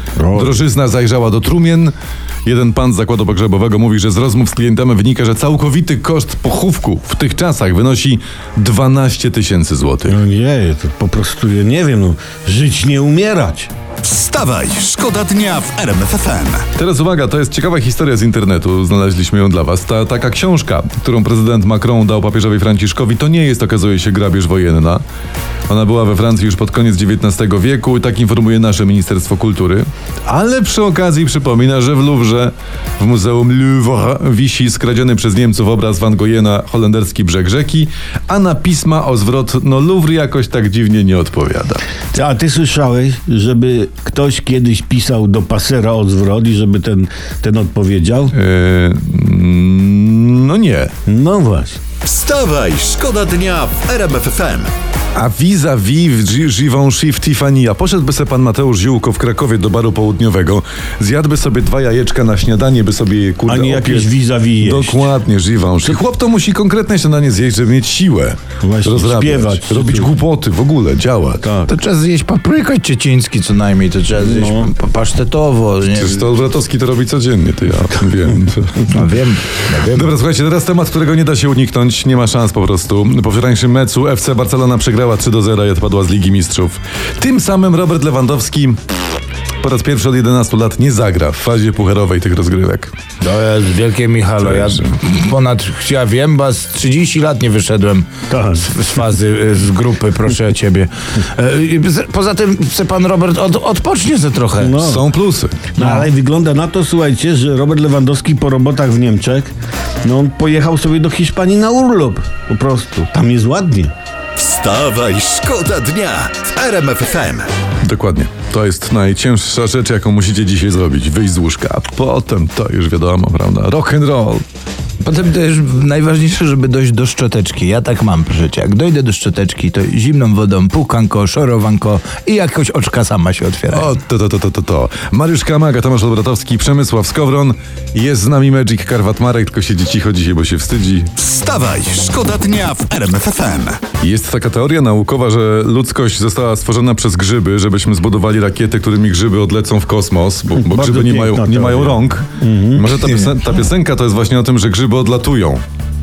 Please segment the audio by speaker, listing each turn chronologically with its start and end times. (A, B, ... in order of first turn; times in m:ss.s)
0:00.2-0:00.6 A
0:00.3-0:01.9 B
0:02.4-0:10.2 B
0:10.0-0:13.7 A
0:14.0-0:16.7 C
0:16.8-0:25.0 B
0:25.7-0:41.8 B
0:42.1-0:48.3 A
0:48.3-0:50.9 B
0:51.1-0:51.8 A
0:52.0-0:54.7 C
0:55.1-1:11.5 B
1:03.4-1:05.1 A
1:08.6-1:10.1 A
1:11.4-1:11.7 A
1:11.7-1:16.3 D
1:14.2-1:14.7 A
1:15.9-1:19.0 B
1:18.9-1:20.1 D
1:19.8-1:28.8 B
1:29.6-1:32.9 B
1:33.2-1:38.1 D
1:34.4-1:34.9 B
1:38.3-1:38.7 A
1:38.6-1:44.8 D
1:44.6-1:45.1 A
1:44.8-1:45.6 B
1:45.7-1:49.5 A
1:45.8-1:46.1 D
1:50.0-1:53.9 A
1:54.4-1:57.5 C
1:57.8-2:04.4 B
2:05.0-2:13.9 D
2:13.7-2:21.1 B
2:21.2-2:23.9 C
2:24.0-2:35.6 B
2:30.6-2:32.9 A
2:32.9-2:33.3 D